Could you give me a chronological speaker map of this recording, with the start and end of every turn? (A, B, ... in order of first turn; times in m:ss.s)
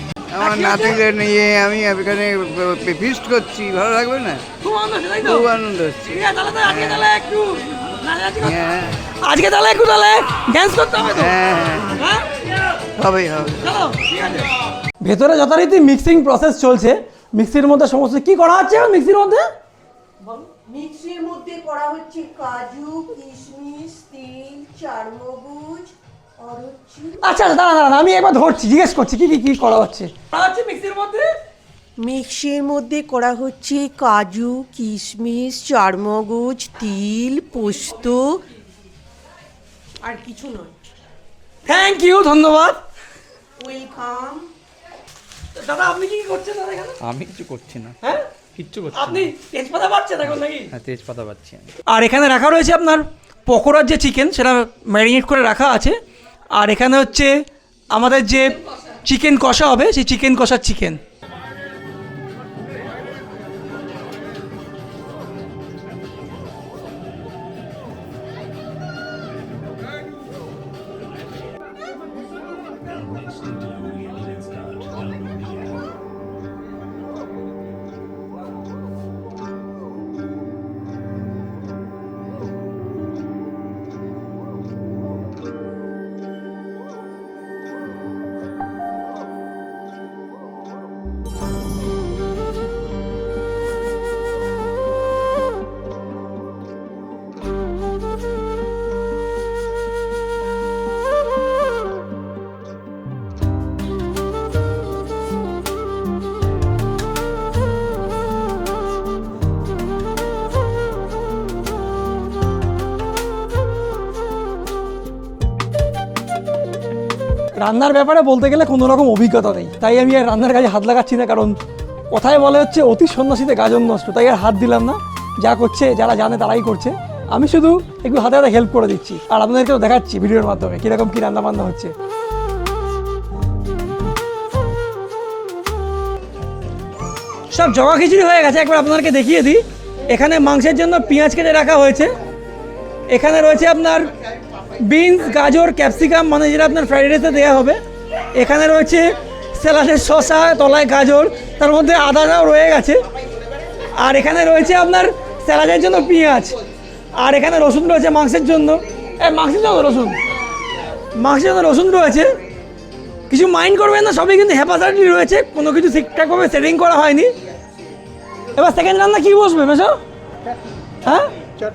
0:00.3-0:04.4 A
0:00.4-0:01.0 B
0:04.6-0:05.5 B
0:05.2-0:07.1 A
0:06.1-0:08.6 B
0:08.4-0:09.0 A
0:09.2-0:11.4 B
0:11.2-0:12.0 A
0:11.9-0:12.4 B
0:13.0-0:13.7 A
0:13.6-0:19.5 B
0:20.2-0:27.3 C
0:27.2-0:31.3 B
0:32.0-0:38.4 C
0:40.0-0:40.8 C
0:41.7-0:42.8 B
0:43.6-0:44.5 C
0:45.6-0:47.0 B
0:47.0-0:48.0 D
0:48.0-0:48.3 B
0:48.6-0:49.3 D
0:48.9-0:50.7 B
0:50.7-0:51.7 D
0:51.9-0:56.0 B
0:56.6-1:01.0 B
1:57.6-2:01.6 B
2:02.1-2:12.0 B
2:17.5-2:22.2 B
2:23.1-2:24.1 B
2:24.8-2:27.8 B
2:28.3-2:33.0 B
2:33.9-2:36.6 B
2:37.2-2:40.2 B
2:41.2-2:42.4 B
2:43.3-2:47.4 B
2:48.6-2:50.0 B
2:51.0-2:51.3 B